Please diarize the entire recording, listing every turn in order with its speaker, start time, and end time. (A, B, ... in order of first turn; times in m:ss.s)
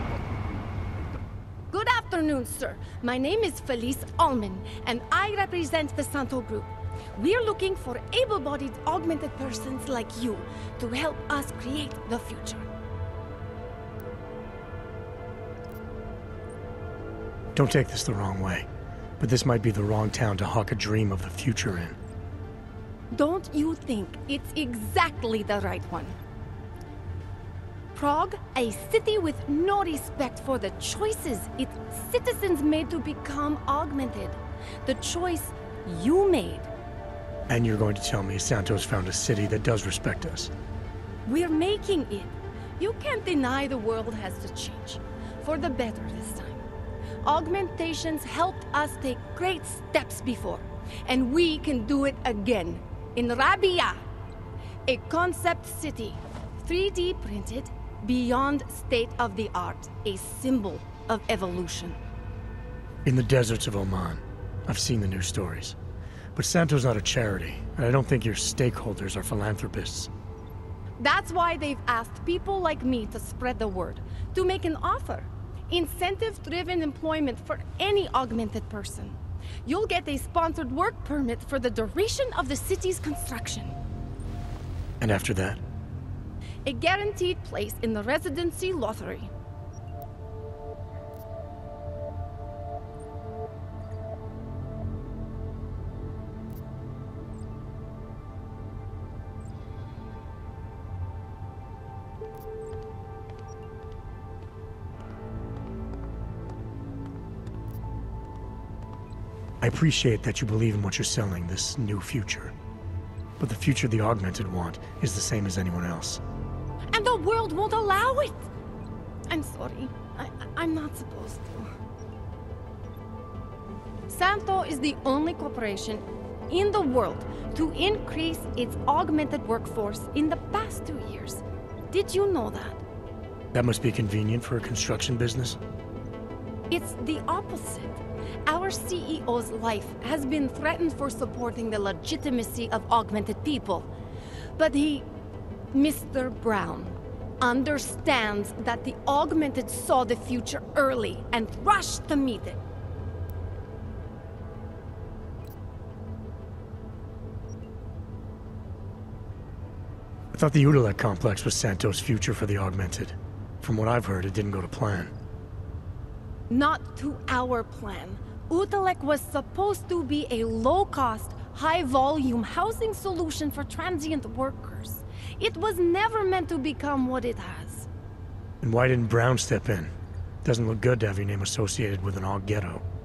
0:01.7-0:12.7 A
0:17.6-0:18.7 B
0:19.2-0:22.0 B
0:23.1-0:26.2 A
0:28.0-0:36.7 A
0:37.5-0:40.5 B
0:41.3-0:46.7 A
0:47.2-0:54.0 A
0:54.9-1:02.0 A
1:03.0-1:05.8 B
1:06.4-1:10.1 B
1:11.0-1:23.8 A
1:25.0-1:25.6 B
1:26.6-1:29.3 A
1:49.6-1:52.5 B
1:53.4-1:56.2 B
1:56.9-1:58.5 A
1:59.3-2:01.7 A
2:04.1-2:12.8 A
2:13.5-2:15.6 B
2:16.7-2:23.9 A
2:24.6-2:25.1 A
2:25.7-2:32.6 A
2:40.3-2:45.1 B
2:46.5-2:57.9 A
2:58.6-2:59.9 B
3:00.4-3:02.8 B